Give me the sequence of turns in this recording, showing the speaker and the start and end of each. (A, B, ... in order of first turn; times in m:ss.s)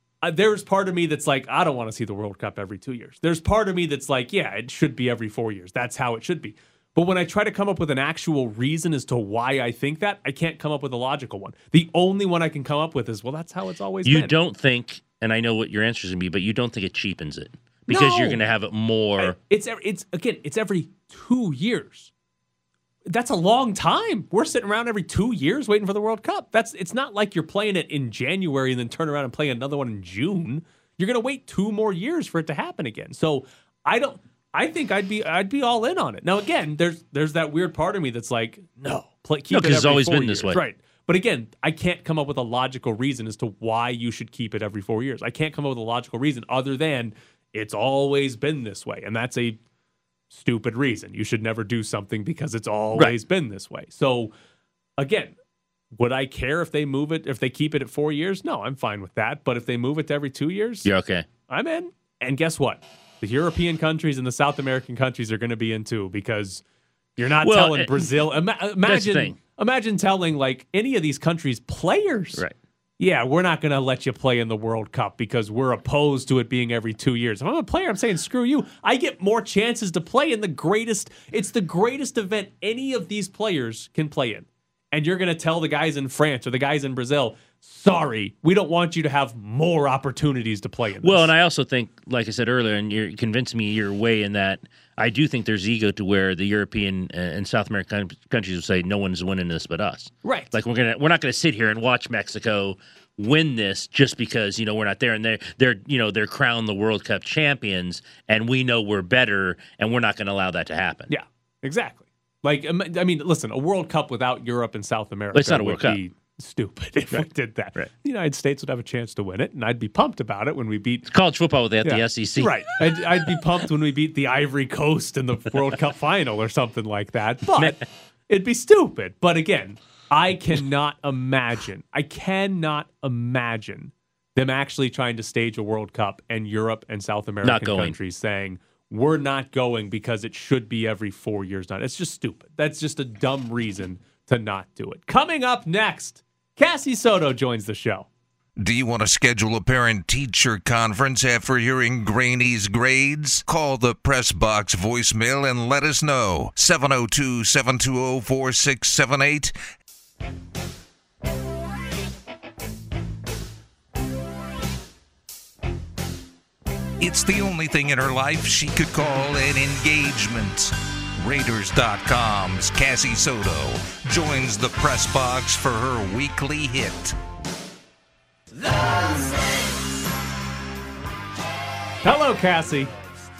0:00.2-0:14.3 A
0:14.0-0:19.4 B
0:17.9-0:18.4 A
0:19.2-0:22.1 A
0:23.1-0:49.6 A
0:39.5-0:40.6 B
0:50.3-0:54.3 A
0:55.0-0:55.4 A
0:56.0-1:00.9 A
1:00.8-1:01.3 B
1:01.5-1:06.6 A
1:07.2-1:12.4 A
1:07.4-1:08.2 B
1:08.8-1:09.4 B
1:13.0-1:31.3 A
1:31.0-1:51.1 B
1:40.2-1:40.6 A
1:51.1-2:01.1 A
1:55.3-1:56.0 B
2:01.1-2:02.6 B
2:01.8-2:28.1 A
2:17.4-2:18.0 B
2:28.6-2:39.5 C
2:47.0-2:57.2 C
3:02.0-3:02.9 A